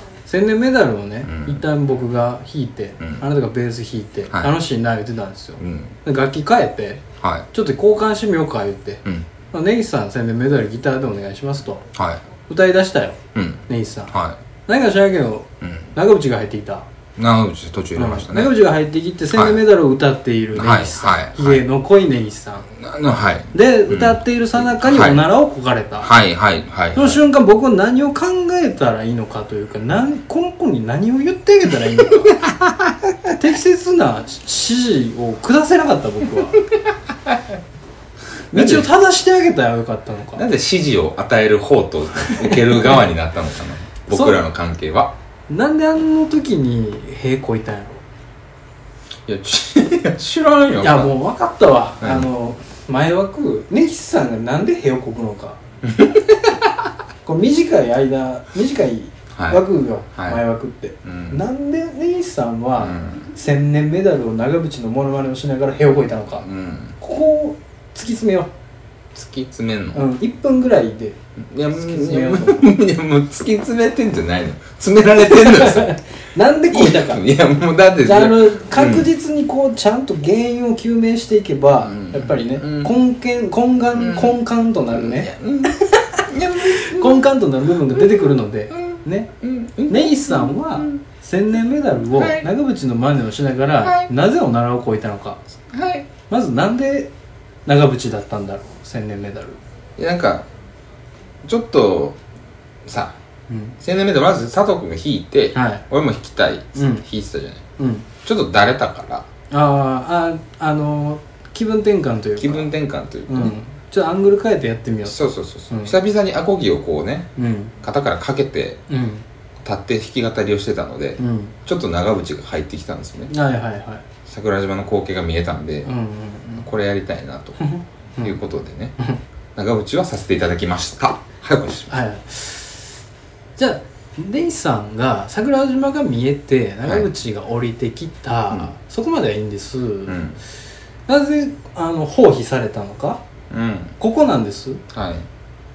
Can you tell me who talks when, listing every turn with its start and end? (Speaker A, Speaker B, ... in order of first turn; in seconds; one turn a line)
Speaker A: 0.2-11.8
Speaker B: 1.2-1.6
Speaker B: 5.6-5.9
Speaker B: 7.2-7.5
Speaker B: 11.9-12.2
Speaker A: 12.5-14.2
Speaker B: 13.3-14.4
Speaker A: 14.7-16.9
Speaker B: 15.6-15.9
Speaker B: 17.2-18.5
Speaker A: 18.0-22.7
Speaker B: 19.3-19.6
Speaker B: 20.5-21.6
Speaker B: 22.8-25.2
Speaker A: 23.5-26.1
Speaker B: 26.0-27.2
Speaker A: 26.9-32.5
Speaker A: 33.3-36.6
Speaker A: 38.5-40.4
Speaker B: 38.5-38.9
Speaker B: 40.4-45.1
Speaker A: 44.1-44.4
Speaker A: 45.5-48.0
Speaker B: 49.2-51.1
Speaker A: 50.8-55.6
Speaker B: 52.0-52.3
Speaker B: 55.8-56.3
Speaker A: 57.2-66.5
Speaker B: 59.3-60.4
Speaker B: 61.0-61.4
Speaker B: 62.8-63.2
Speaker B: 66.4-67.0
Speaker A: 67.0-68.5
Speaker B: 69.2-70.1
Speaker A: 69.9-71.2
Speaker B: 71.4-76.0
Speaker A: 71.7-72.7
Speaker A: 75.3-77.2
Speaker B: 76.7-79.1
Speaker A: 78.0-89.3
Speaker B: 81.8-83.0
Speaker B: 83.9-84.4
Speaker B: 84.9-87.3
Speaker B: 87.9-91.0
Speaker A: 89.9-95.4
Speaker B: 92.1-92.5
Speaker B: 93.8-94.1
Speaker B: 95.7-96.1
Speaker A: 96.3-97.1
Speaker A: 97.7-99.6
Speaker B: 100.0-100.5
Speaker B: 101.4-102.2
Speaker B: 102.8-103.2
Speaker A: 103.5-103.8
Speaker B: 103.8-107.6
Speaker A: 105.5-105.9
Speaker A: 106.8-107.0
Speaker A: 107.8-108.1
Speaker B: 108.2-109.3
Speaker A: 109.5-112.7
Speaker B: 112.4-113.5
Speaker A: 113.3-116.0
Speaker B: 115.1-118.8
Speaker A: 117.4-117.7
Speaker A: 118.9-119.2
Speaker B: 119.6-123.3
Speaker A: 121.2-121.6
Speaker A: 123.3-124.0
Speaker B: 124.3-125.9
Speaker A: 125.8-126.7
Speaker B: 126.6-127.6
Speaker A: 127.6-128.4
Speaker B: 128.2-129.0
Speaker B: 129.6-131.9
Speaker A: 131.9-132.9
Speaker A: 133.6-140.2
Speaker B: 140.1-140.4
Speaker A: 141.1-143.2
Speaker B: 143.5-144.0
Speaker A: 144.0-144.8
Speaker B: 144.9-145.3